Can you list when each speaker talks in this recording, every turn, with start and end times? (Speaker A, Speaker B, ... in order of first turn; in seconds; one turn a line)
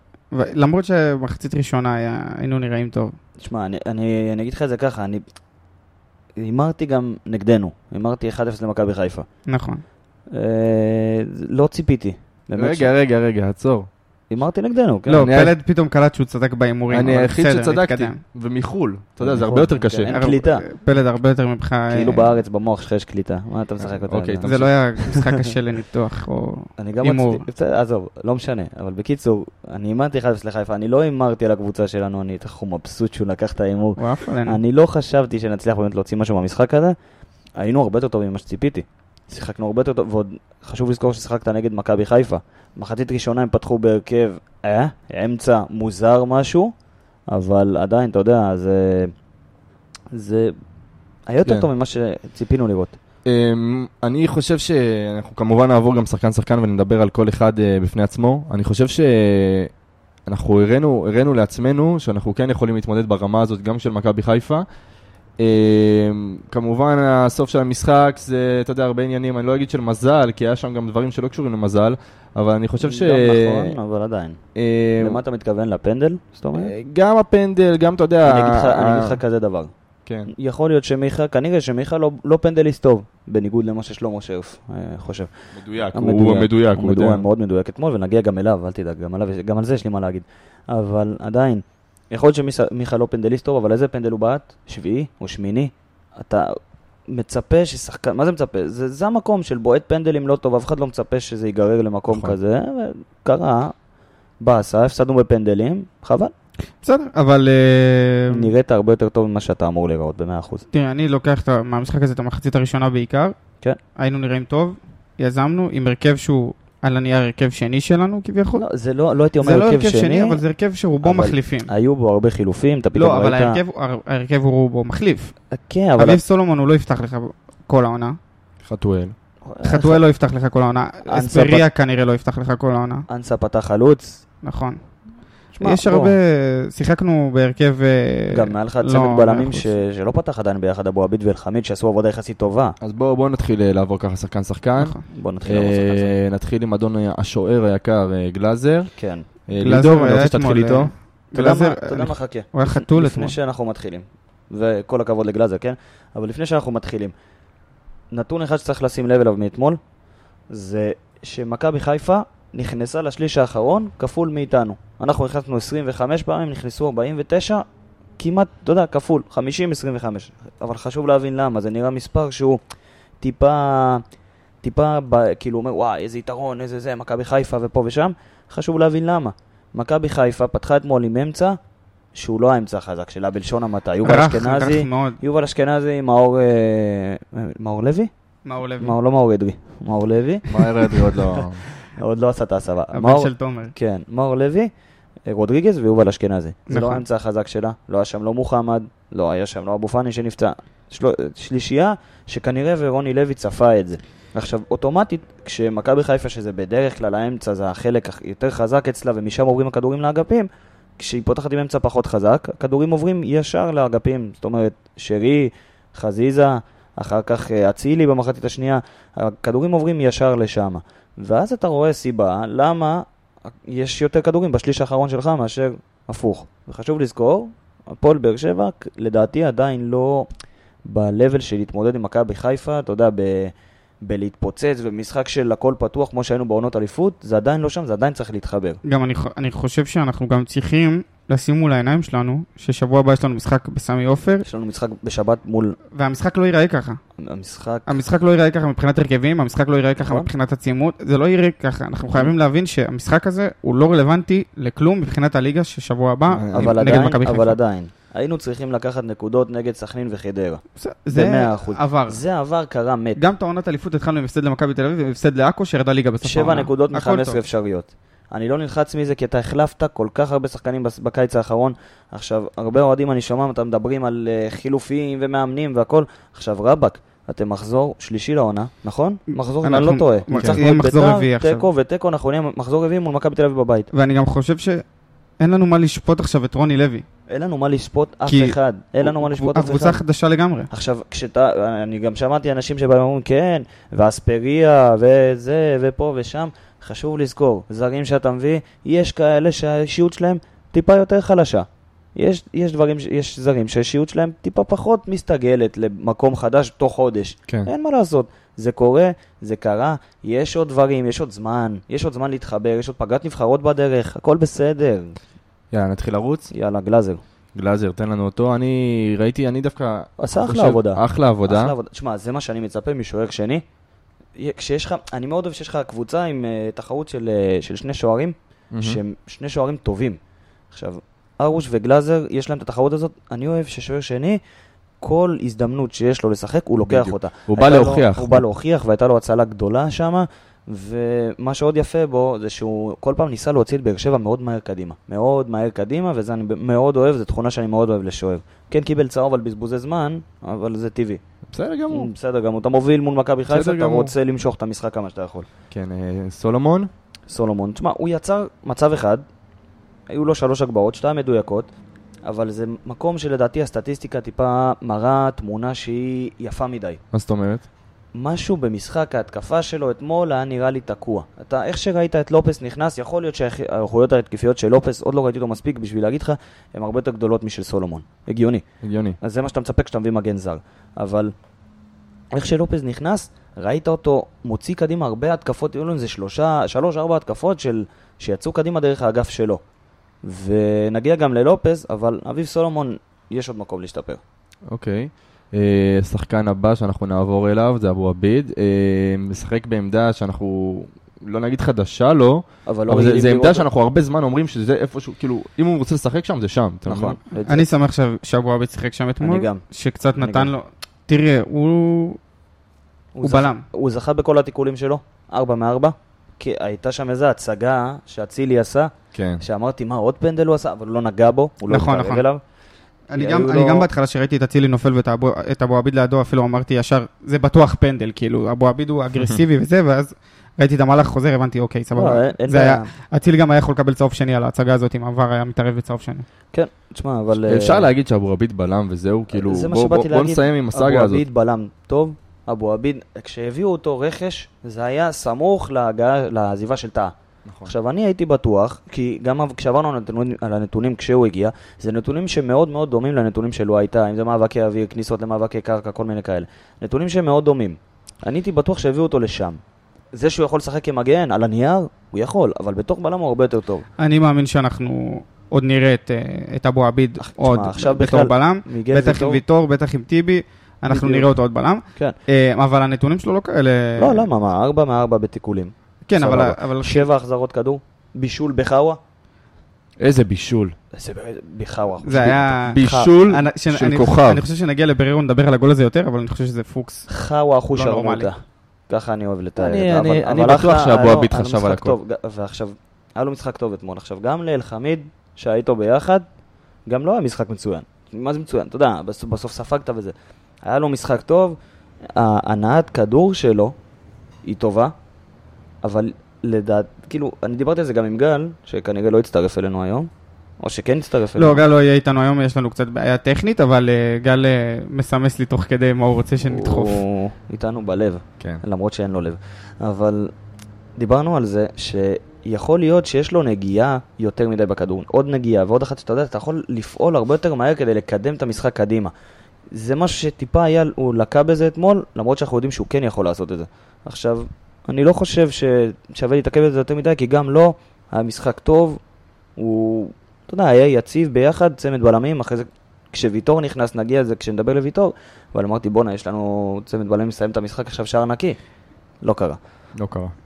Speaker A: 0.3-3.1
Speaker B: 3.4-5.2
Speaker B: 6.4-9.3
Speaker A: 9.5-9.8
Speaker B: 10.3-12.9
Speaker C: 12.6-13.9
Speaker B: 14.3-15.3
Speaker A: 15.1-18.2
Speaker C: 15.2-15.5
Speaker C: 16.9-20.1
Speaker B: 19.2-20.7
Speaker A: 20.1-22.3
Speaker B: 21.9-25.3
Speaker C: 24.0-24.7
Speaker A: 24.4-27.5
Speaker B: 26.8-37.0
Speaker A: 34.0-34.6
Speaker B: 37.6-46.7
Speaker B: 47.3-49.1
Speaker B: 50.1-50.5
Speaker B: 51.3-53.0
Speaker C: 53.3-59.7
Speaker C: 60.3-64.7
Speaker C: 65.4-73.8
Speaker B: 72.8-74.4
Speaker C: 74.5-75.2
Speaker B: 75.0-76.7
Speaker C: 76.5-79.2
Speaker B: 78.2-79.7
Speaker B: 80.3-96.6
Speaker C: 85.5-87.2
Speaker B: 97.1-103.7
Speaker C: 102.1-102.4
Speaker B: 104.4-106.3
Speaker A: 106.8-108.5
Speaker B: 108.3-110.6
Speaker A: 110.7-113.3
Speaker A: 114.0-118.7
Speaker B: 118.6-120.4
Speaker A: 119.4-121.7
Speaker B: 121.0-123.6
Speaker A: 123.0-125.3
Speaker B: 125.5-126.2
Speaker A: 126.0-128.2
Speaker C: 128.6-129.2
Speaker B: 129.4-130.0
Speaker A: 129.6-133.1
Speaker B: 131.1-131.7
Speaker B: 133.1-134.2
Speaker A: 134.4-134.8
Speaker B: 135.5-136.2
Speaker A: 135.6-139.7
Speaker B: 138.3-142.8
Speaker C: 142.8-148.9
Speaker B: 145.1-146.2
Speaker B: 149.0-149.3
Speaker C: 149.5-150.9
Speaker A: 149.6-153.3
Speaker B: 151.3-157.1
Speaker B: 158.1-159.8
Speaker B: 160.5-167.7
Speaker B: 168.2-172.6
Speaker B: 173.2-174.0
Speaker B: 174.6-181.6
Speaker B: 182.1-188.1
Speaker A: 184.0-185.2
Speaker A: 188.4-188.9
Speaker B: 188.8-194.7
Speaker C: 190.5-191.7
Speaker A: 192.9-193.8
Speaker B: 195.3-230.3
Speaker A: 196.7-197.0
Speaker B: 230.8-238.8
Speaker A: 238.8-244.5
Speaker B: 244.4-245.8
Speaker A: 245.9-247.0
Speaker B: 247.2-247.9
Speaker A: 247.9-257.6
Speaker B: 250.0-250.3
Speaker C: 256.3-256.8
Speaker B: 256.5-263.2
Speaker A: 260.8-262.2
Speaker A: 263.2-267.4
Speaker B: 266.2-283.9
Speaker A: 279.3-281.6
Speaker C: 280.3-280.6
Speaker A: 283.9-284.8
Speaker A: 285.4-287.1
Speaker B: 287.3-290.0
Speaker A: 288.3-290.7
Speaker B: 290.7-315.2
Speaker C: 315.7-316.5
Speaker B: 316.5-317.2
Speaker C: 317.6-321.8
Speaker B: 320.2-323.6
Speaker B: 324.4-330.2
Speaker C: 328.7-329.0
Speaker B: 330.7-334.4
Speaker B: 335.0-351.2
Speaker C: 336.9-338.4
Speaker C: 351.5-352.1
Speaker B: 351.9-355.5
Speaker C: 353.5-354.1
Speaker C: 355.7-356.9
Speaker B: 357.3-359.2
Speaker B: 360.1-361.7
Speaker B: 362.2-367.0
Speaker C: 367.1-367.6
Speaker B: 368.1-378.6
Speaker C: 378.8-379.2
Speaker B: 379.2-381.3
Speaker B: 382.3-389.6
Speaker B: 390.2-394.2
Speaker C: 394.7-407.2
Speaker B: 402.7-403.6
Speaker B: 406.9-407.7
Speaker A: 407.5-412.2
Speaker B: 409.2-409.6
Speaker B: 410.2-410.5
Speaker B: 413.2-422.4
Speaker A: 413.2-413.6
Speaker C: 419.1-419.4
Speaker A: 421.7-422.2
Speaker A: 423.1-436.2
Speaker B: 423.1-423.9
Speaker B: 431.9-432.9
Speaker B: 436.5-437.9
Speaker C: 437.4-441.2
Speaker B: 439.3-447.1
Speaker B: 447.6-459.6
Speaker B: 460.1-463.9
Speaker A: 464.0-474.3
Speaker B: 467.2-469.4
Speaker B: 470.9-471.3
Speaker B: 474.0-479.0
Speaker A: 476.1-477.1
Speaker C: 480.0-480.8
Speaker B: 480.9-483.1
Speaker A: 482.1-487.1
Speaker C: 482.6-484.4
Speaker B: 487.1-488.4
Speaker A: 487.8-488.3
Speaker B: 488.9-496.3
Speaker C: 489.6-491.9
Speaker B: 496.9-501.6
Speaker B: 502.1-503.8
Speaker B: 504.4-504.9
Speaker B: 505.8-510.1
Speaker B: 510.6-511.6
Speaker A: 511.4-517.0
Speaker B: 516.4-520.3
Speaker B: 521.0-529.1
Speaker B: 529.7-539.0
Speaker B: 539.6-548.6
Speaker B: 549.2-549.6
Speaker C: 550.0-550.3